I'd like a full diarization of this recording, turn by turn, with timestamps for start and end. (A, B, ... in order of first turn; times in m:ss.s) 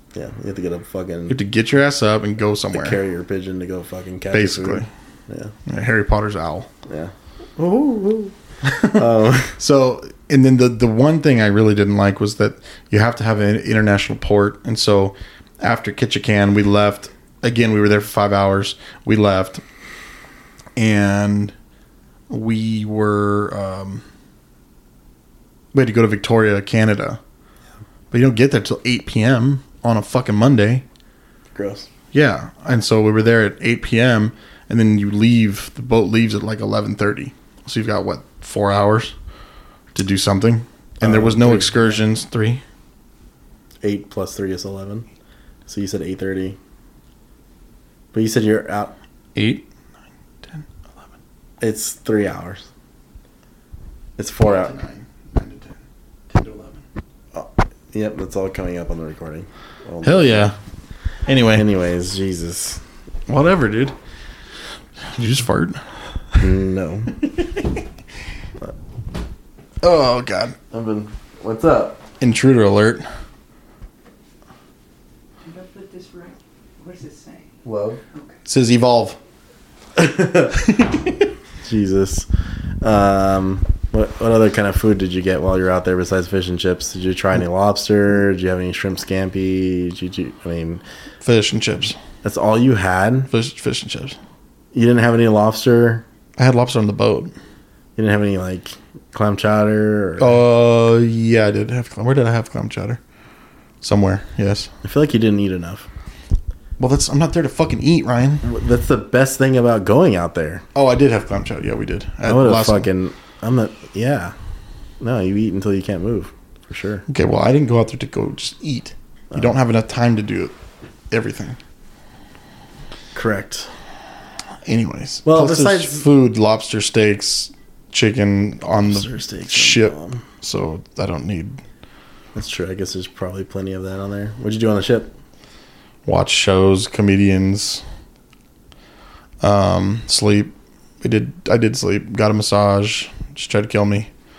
0:00.1-0:01.4 A
0:01.3-0:03.0 B
0:02.7-0:05.5 A
0:04.3-0:04.9 B
0:05.7-0:06.7 B
0:06.9-0:08.3 A
0:08.6-0:09.0 B
0:08.9-0:09.6 A
0:09.6-0:19.6 B
0:20.8-0:21.5 B
0:22.3-0:24.0 B
0:25.7-0:27.2 B
0:28.1-0:30.8 B
0:31.5-0:31.9 A
0:32.1-0:39.1 B
0:39.9-0:42.6 B
0:41.0-0:41.9 A
0:43.8-0:45.1 A
0:45.7-0:46.6 A
0:48.1-0:48.9 A
0:49.3-0:49.6 B
0:51.6-0:52.6 A
0:54.2-0:54.8 A
0:54.4-0:55.8 B
0:56.3-0:56.8 B
0:57.3-1:00.5 A
1:00.0-1:00.6 B
1:01.2-1:01.7 B
1:01.5-1:02.8 A
1:03.3-1:03.9 B
1:05.0-1:05.8 B
1:06.4-1:07.2 A
1:09.8-1:10.6 B
1:10.7-1:12.0 A
1:12.2-1:13.0 B
1:15.4-1:17.4 C
1:17.6-1:18.0 A
1:18.4-1:19.2 B
1:20.0-1:20.5 A
1:20.5-1:21.2 B
1:21.6-1:22.3 A
1:22.8-1:30.8 A
1:31.2-1:32.0 B
1:32.2-1:33.3 A
1:33.3-1:34.2 B
1:34.7-1:36.0 A
1:36.4-1:37.3 B
1:38.0-1:40.4 A
1:40.2-1:43.0 B
1:43.8-1:44.7 B
1:44.8-1:45.9 A
1:46.8-1:48.4 B
1:48.4-1:50.6 A
1:50.7-1:52.9 B
1:52.2-1:54.3 A
1:55.0-1:57.0 A
1:57.1-2:00.5 B
2:01.1-2:01.6 B
2:03.1-2:03.7 A
2:04.6-2:11.6 B
2:05.2-2:06.0 A
2:08.8-2:10.2 A
2:12.3-2:15.1 A
2:16.0-2:17.8 B
2:19.4-2:24.1 B